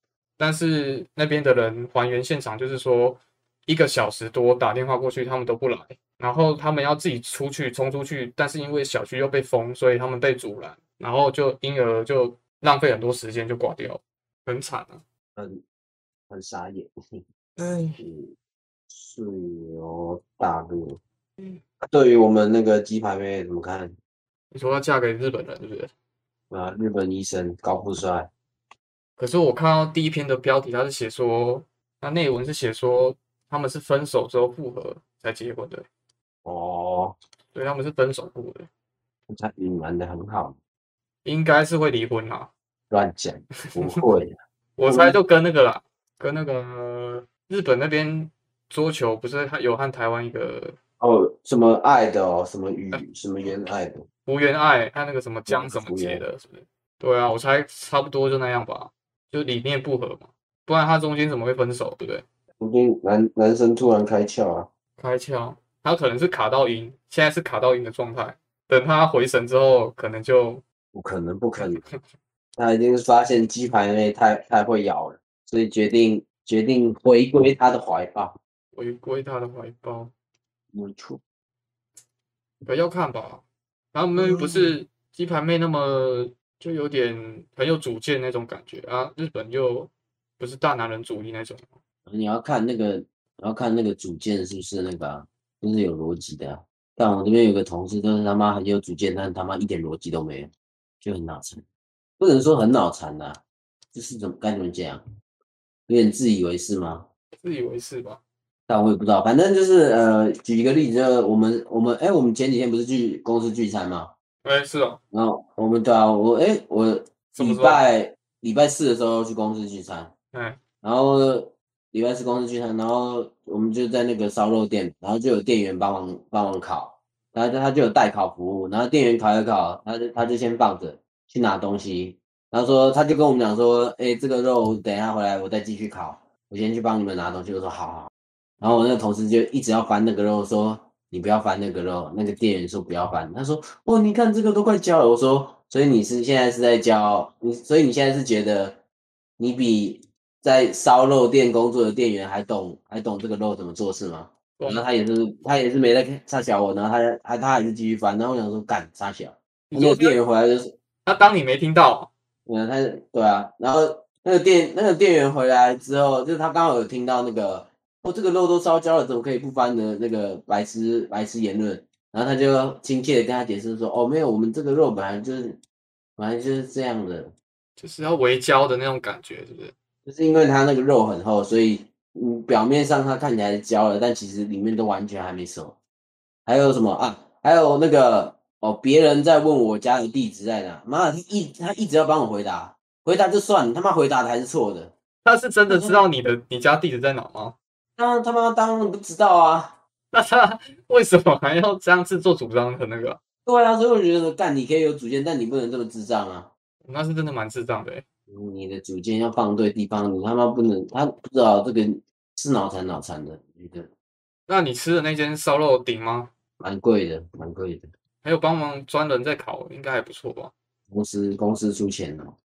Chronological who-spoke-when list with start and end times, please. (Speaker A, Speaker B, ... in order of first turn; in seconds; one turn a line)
Speaker A: 0.4-15.0
Speaker B: 15.4-15.6
Speaker B: 16.3-17.2
Speaker A: 17.6-18.0
Speaker B: 18.0-18.4
Speaker B: 18.9-21.0
Speaker B: 21.8-24.0
Speaker A: 24.5-25.9
Speaker B: 26.5-28.3
Speaker A: 29.2-35.9
Speaker B: 36.5-37.2
Speaker A: 37.5-38.7
Speaker B: 39.3-40.6
Speaker A: 41.2-42.5
Speaker B: 42.9-45.2
Speaker A: 43.7-44.0
Speaker A: 44.8-50.8
Speaker B: 51.0-54.0
Speaker A: 54.3-62.2
Speaker B: 55.5-56.2
Speaker B: 62.6-64.7
Speaker A: 65.0-70.6
Speaker B: 70.9-71.8
Speaker A: 71.6-72.0
Speaker B: 72.6-78.3
Speaker A: 78.7-80.1
Speaker B: 80.7-81.2
Speaker A: 82.7-91.7
Speaker B: 84.2-84.8
Speaker B: 92.1-101.6
Speaker B: 102.2-103.4
Speaker B: 103.9-105.0
Speaker B: 105.9-107.1
Speaker A: 107.4-108.2
Speaker B: 108.7-114.1
Speaker A: 114.4-115.0
Speaker B: 115.1-120.1
Speaker A: 117.3-117.9
Speaker A: 120.3-120.6
Speaker B: 120.8-148.8
Speaker B: 149.4-160.7
Speaker A: 154.6-154.9
Speaker A: 159.7-160.2
Speaker A: 161.1-162.1
Speaker B: 162.5-175.6
Speaker B: 176.2-177.3
Speaker A: 177.8-179.7
Speaker B: 180.1-185.8
Speaker B: 186.5-194.9
Speaker A: 195.2-197.6
Speaker B: 195.7-196.0
Speaker B: 198.0-199.8
Speaker A: 200.1-203.2
Speaker B: 203.5-206.5
Speaker A: 206.8-208.0
Speaker B: 208.3-213.9
Speaker A: 214.5-216.3
Speaker B: 216.6-217.9
Speaker A: 218.2-220.5
Speaker B: 220.9-222.4